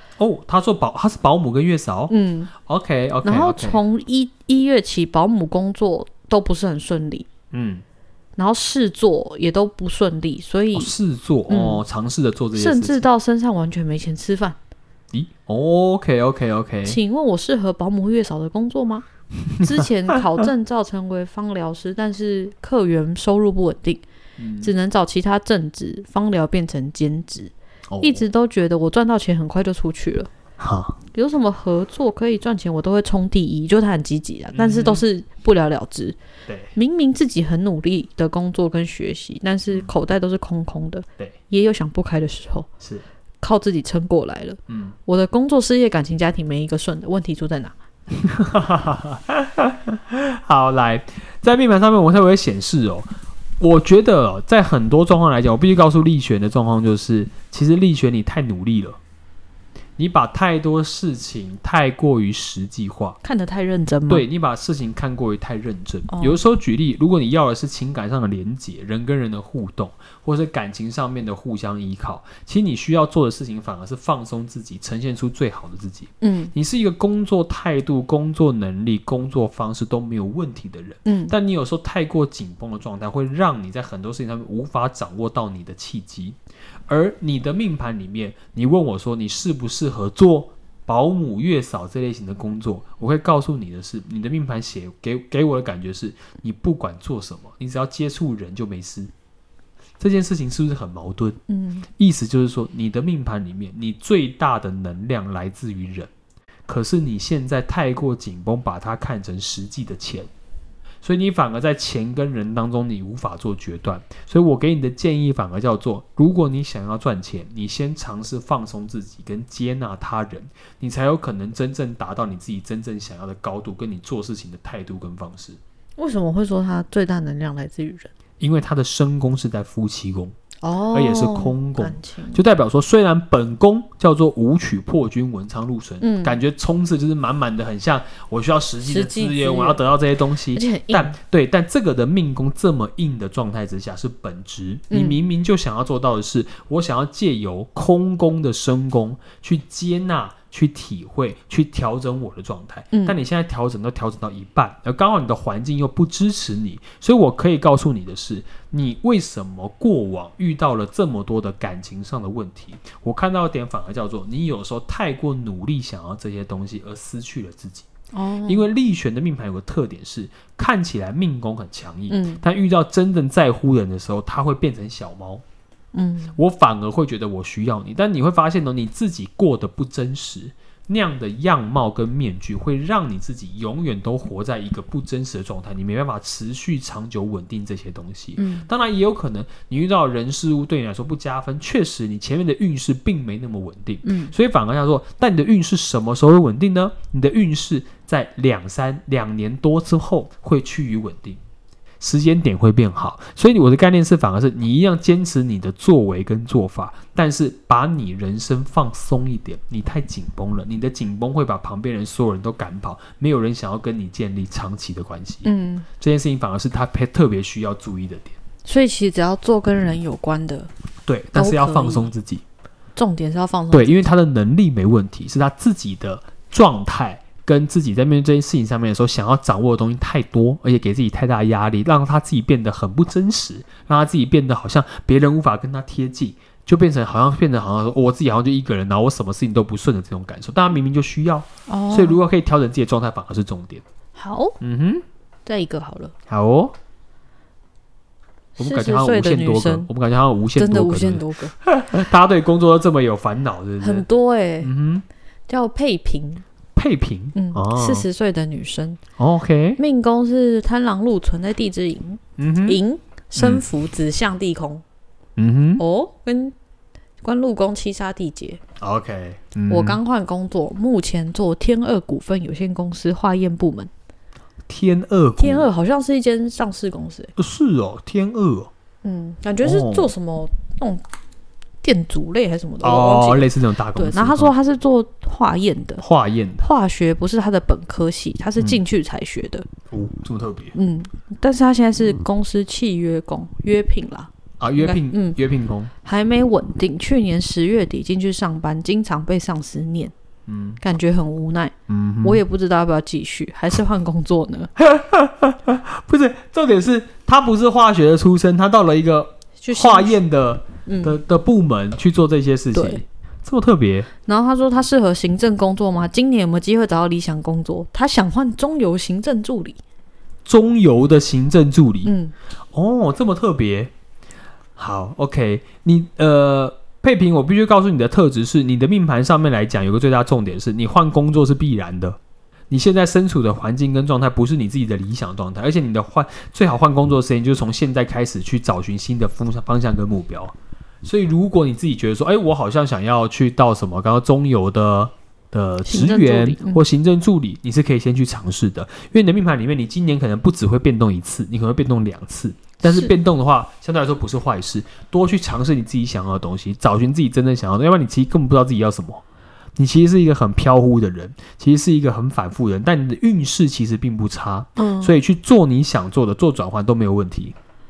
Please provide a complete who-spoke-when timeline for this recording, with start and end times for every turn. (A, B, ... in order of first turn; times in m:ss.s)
0:00.2-0:02.1 A
0:02.1-0:02.5 B
0:02.7-0:03.8 A
0:03.2-0:07.3 B
0:07.5-0:07.8 A
0:08.4-0:10.9 B
0:10.7-0:13.1 A
0:11.5-0:11.8 B
0:12.6-0:14.6 B
0:15.1-0:17.0 A
0:16.8-0:19.0 B
0:19.5-0:20.2 A
0:19.6-0:24.0 B
0:24.4-0:24.7 A
0:24.6-0:30.3 B
0:27.9-0:28.3 A
0:30.6-0:31.0 A
0:31.1-0:36.2 B
0:34.5-0:35.0 A
0:36.5-0:36.7 A
0:36.8-0:42.7 B
0:43.4-0:47.8 B
0:44.7-0:45.0 A
0:48.1-0:53.1 A
0:53.6-0:59.0 A
1:00.0-1:03.2 A
1:03.2-1:04.2 B
1:04.1-1:26.4 A
1:06.1-1:06.4 B
1:16.2-1:16.5 B
1:21.1-1:21.3 B
1:26.9-1:39.1 A
1:40.0-1:41.4 A
1:41.5-1:41.9 B
1:42.0-1:46.1 A
1:46.7-1:50.3 A
1:51.0-2:05.6 A
2:06.0-2:08.1 B
2:08.4-2:10.3 A
2:10.6-2:12.4 B
2:10.9-2:47.9 A
2:16.0-2:16.4 B
2:18.8-2:19.8 B
2:20.5-2:21.2 B
2:24.9-2:25.2 B
2:32.9-2:33.2 B
2:48.1-2:48.7 B
2:48.5-2:55.4 A
2:52.1-2:52.4 B
2:55.9-2:56.4 B
2:56.4-3:21.4 A
3:08.4-3:08.7 B
3:14.0-3:14.3 B
3:22.0-3:35.5 A
3:35.4-3:35.9 B
3:36.0-3:38.4 A
3:38.6-3:40.7 B
3:41.1-3:42.4 A
3:41.3-3:42.1 B
3:43.0-3:44.0 B
3:43.7-4:03.8 A
4:01.7-4:02.2 B
4:04.2-4:04.6 B
4:04.6-4:05.0 A
4:05.5-4:06.1 B
4:06.3-4:06.7 A
4:08.6-4:09.9 B
4:08.6-4:14.1 A
4:10.6-4:11.6 B
4:13.8-4:14.7 B
4:14.6-4:15.1 A
4:15.5-4:16.4 B
4:16.8-4:18.1 A
4:17.4-4:19.0 B
4:19.2-4:19.8 A
4:19.8-4:24.8 B
4:22.4-4:22.8 A
4:23.4-4:23.6 A
4:25.4-4:25.8 A
4:25.8-4:26.6 B
4:27.2-4:28.6 B
4:28.8-4:30.0 A
4:29.7-4:33.9 B
4:34.7-4:35.7 A
4:35.4-4:37.3 B
4:37.4-4:38.7 A
4:39.0-4:41.0 B
4:39.6-4:40.1 A
4:41.8-4:46.0 B
4:42.8-4:44.5 A
4:46.0-4:46.7 A
4:46.6-4:49.7 B
4:49.9-4:50.8 A
4:50.8-4:55.4 B
4:54.6-4:55.9 A
4:56.0-5:00.1 B
5:00.5-5:00.8 A
5:00.8-5:04.7 B
5:01.9-5:02.4 A
5:04.8-5:14.1 A
5:09.6-5:10.2 B
5:10.9-5:11.2 B
5:12.7-5:13.0 B
5:14.3-5:19.8 B
5:20.4-5:22.1 A
5:22.0-5:22.3 B
5:22.7-5:23.9 A
5:24.8-5:32.2 A
5:32.7-5:59.2 A
5:45.8-5:46.8 B
5:52.8-5:53.1 B
5:59.8-6:07.6 A
6:04.8-6:05.2 B